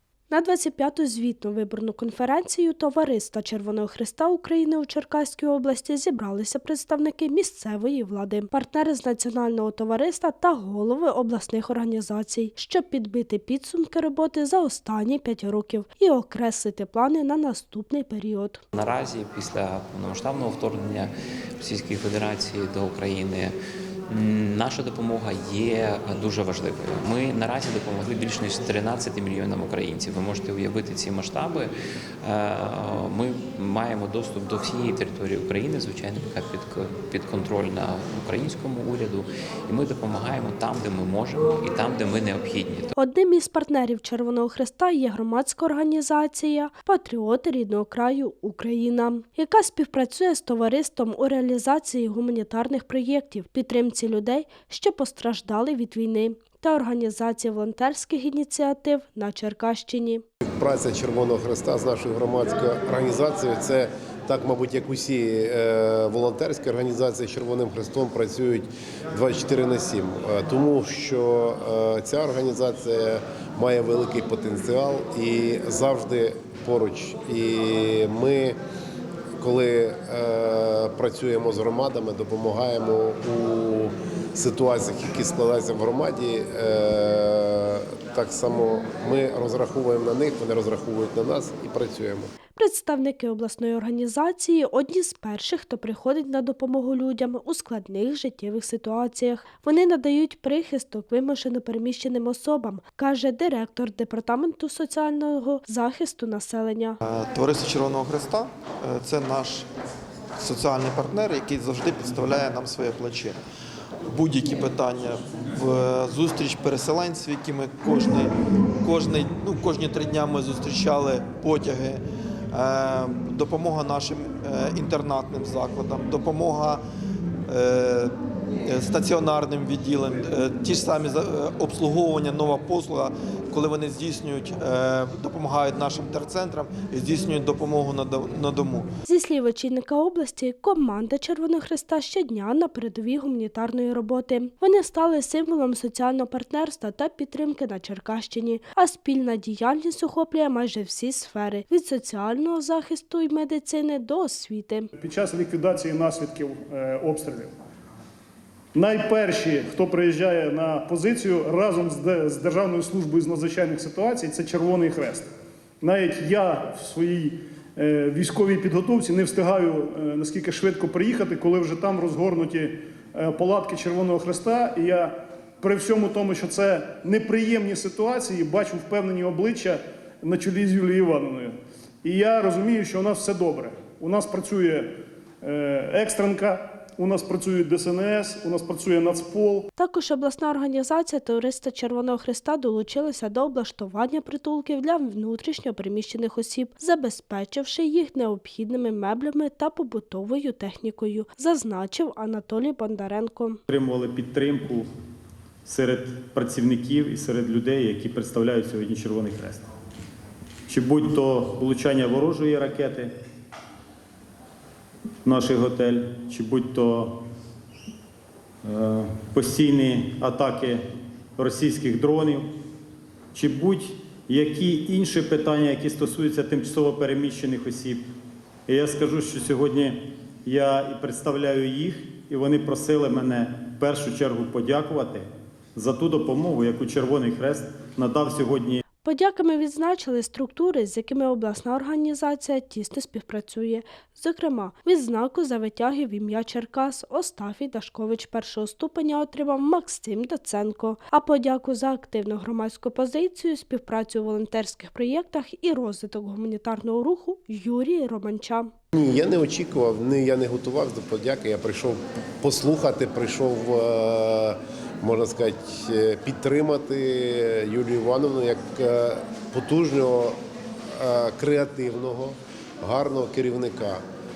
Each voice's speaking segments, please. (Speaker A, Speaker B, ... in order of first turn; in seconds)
Speaker A: 0.3-18.6, 43.0-60.2, 92.5-107.0, 139.1-154.9, 189.8-203.6, 239.0-258.7
Speaker B: 18.7-23.5, 24.1-42.9
Speaker C: 60.6-78.6, 79.4-92.3, 258.9-270.4, 270.9-274.0
Speaker D: 107.0-109.7, 110.4-113.4, 114.1-126.8, 127.5-138.9
Speaker E: 155.0-157.5, 158.7-165.3, 165.8-189.7
Speaker F: 203.7-204.8, 205.6-209.6, 210.7-213.1, 215.2-217.2, 218.6-220.8, 221.4-222.5, 223.3-228.0, 228.7-238.8